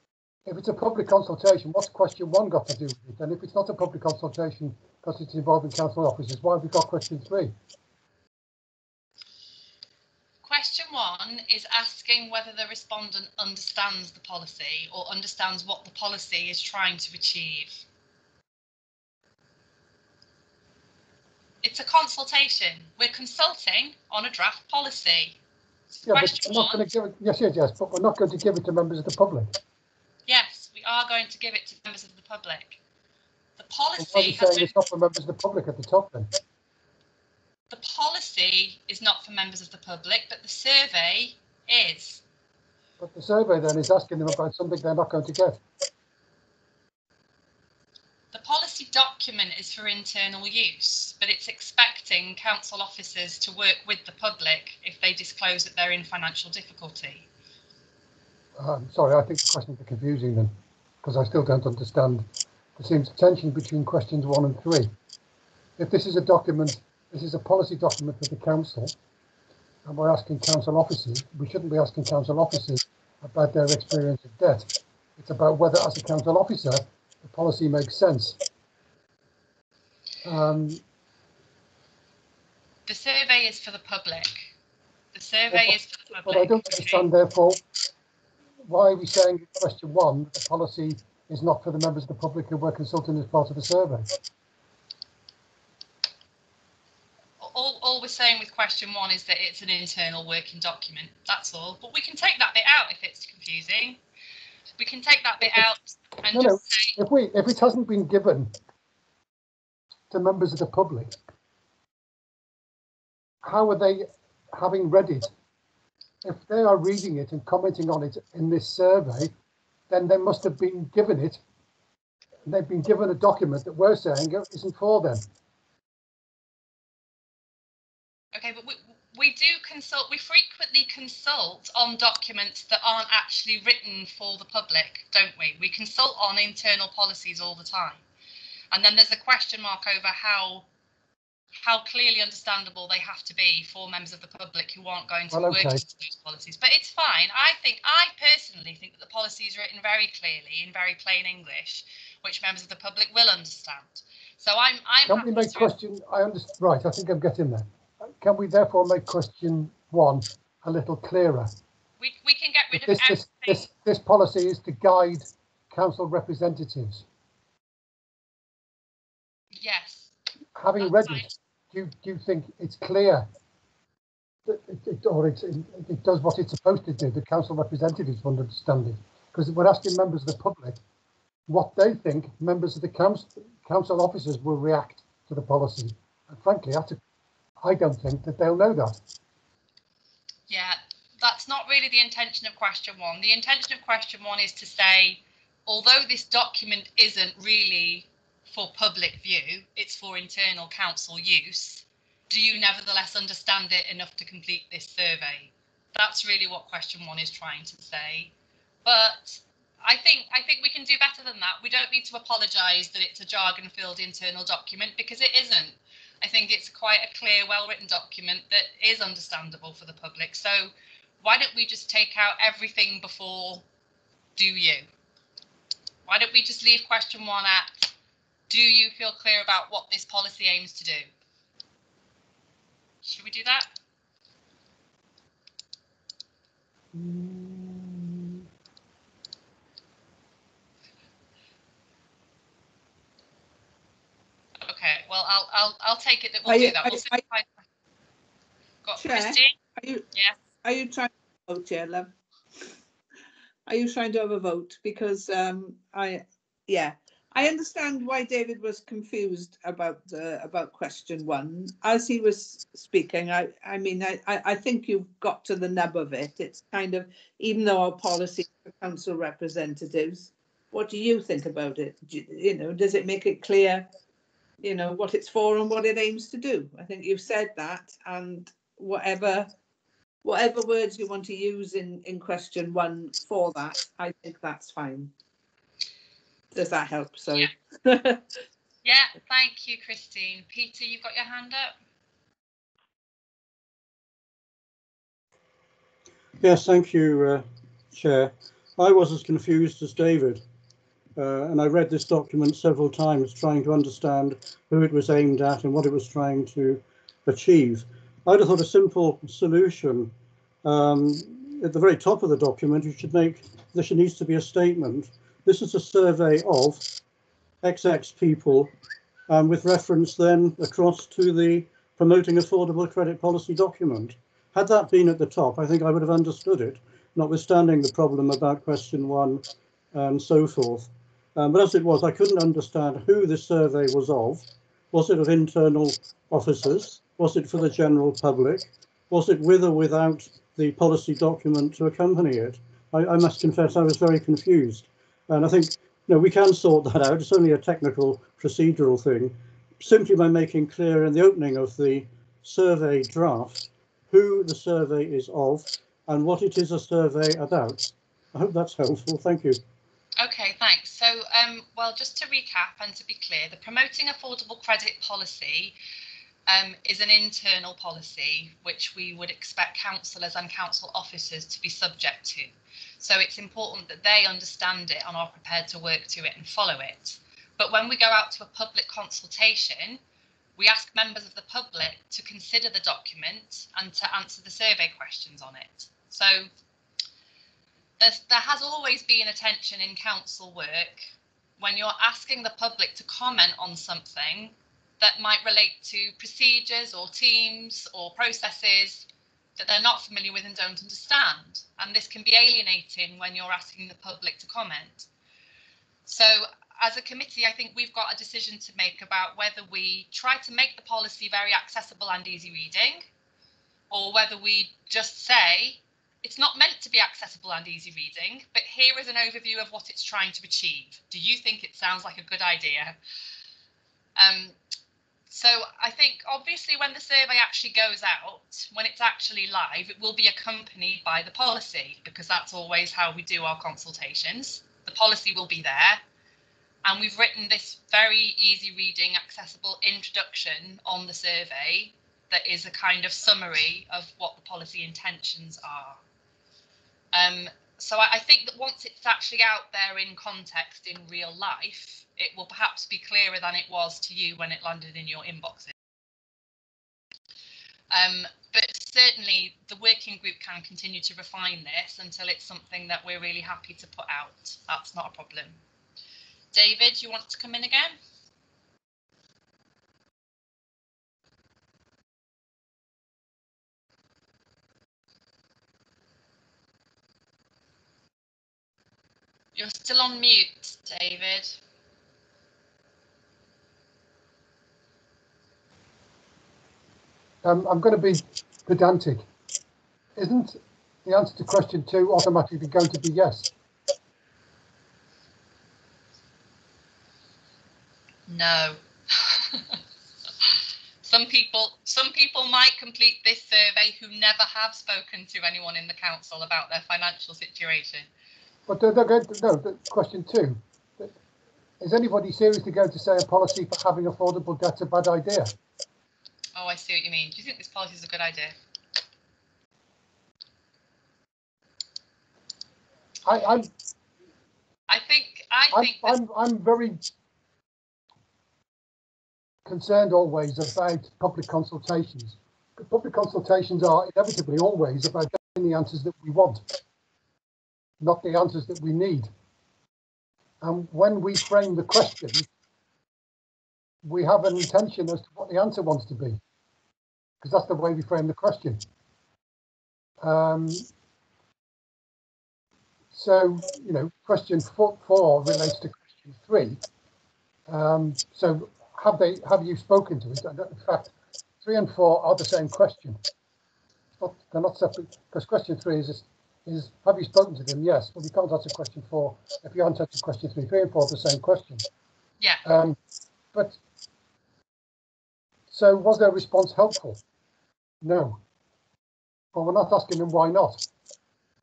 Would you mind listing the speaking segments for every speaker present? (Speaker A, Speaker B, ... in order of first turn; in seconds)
Speaker A: 0.5-7.5, 26.1-29.6, 34.0-36.3, 43.0-45.6, 58.5-64.9, 65.8-68.9, 69.8-78.4, 80.2-80.8, 85.5-87.6, 88.6-94.1, 106.3-108.5, 110.1-111.2, 113.4-115.3, 116.2-119.3, 119.9-121.4, 122.5-125.2, 145.3-145.8, 155.0-161.5, 162.7-167.1, 170.5-173.3, 174.4-180.8, 181.5-187.0, 187.6-189.0, 487.4-489.2, 490.1-493.5, 508.7-511.1, 511.8-515.5, 523.2-523.7, 525.7-527.0, 529.6-536.6, 538.0-539.3, 540.6-542.5, 544.0-546.4, 547.4-548.8, 550.2-550.9, 553.1-556.8, 557.7-563.2, 564.2-571.9, 572.6-573.0, 573.5-573.8, 575.7-577.2, 578.0-578.4, 579.5-580.8
Speaker B: 10.4-17.8, 21.6-25.4, 25.9-26.9, 30.3-32.8, 33.6-34.7, 37.7-42.2, 48.3-57.3, 82.9-84.5, 85.1-87.1, 97.4-104.0, 104.8-107.0, 128.3-138.0, 138.7-140.7, 141.6-155.7, 162.0-163.7, 169.6-170.1, 170.8-171.2, 190.5-208.3, 208.8-223.6, 224.3-224.8, 226.1-227.9, 228.5-231.1, 233.0-233.7, 244.6-247.6, 248.8-249.6, 250.1-250.4, 288.8-291.7, 360.2-365.8, 366.5-380.0, 380.6-386.5, 388.0-399.1, 399.6-405.1, 406.1-413.0, 413.9-423.0, 424.2-424.5, 425.3-436.0, 436.8-446.0, 447.1-455.7, 457.9-465.6, 466.5-467.9, 479.5-481.6, 498.3-499.8, 500.4-508.1, 516.5-518.5, 524.9-526.1
Speaker C: 236.9-238.3, 246.4-247.2, 249.0-250.0, 250.6-252.1, 253.7-273.9, 274.6-279.5, 280.2-285.1, 286.5-288.2
Speaker D: 296.4-300.4, 301.2-310.1, 310.6-316.9, 317.6-318.7, 319.3-359.6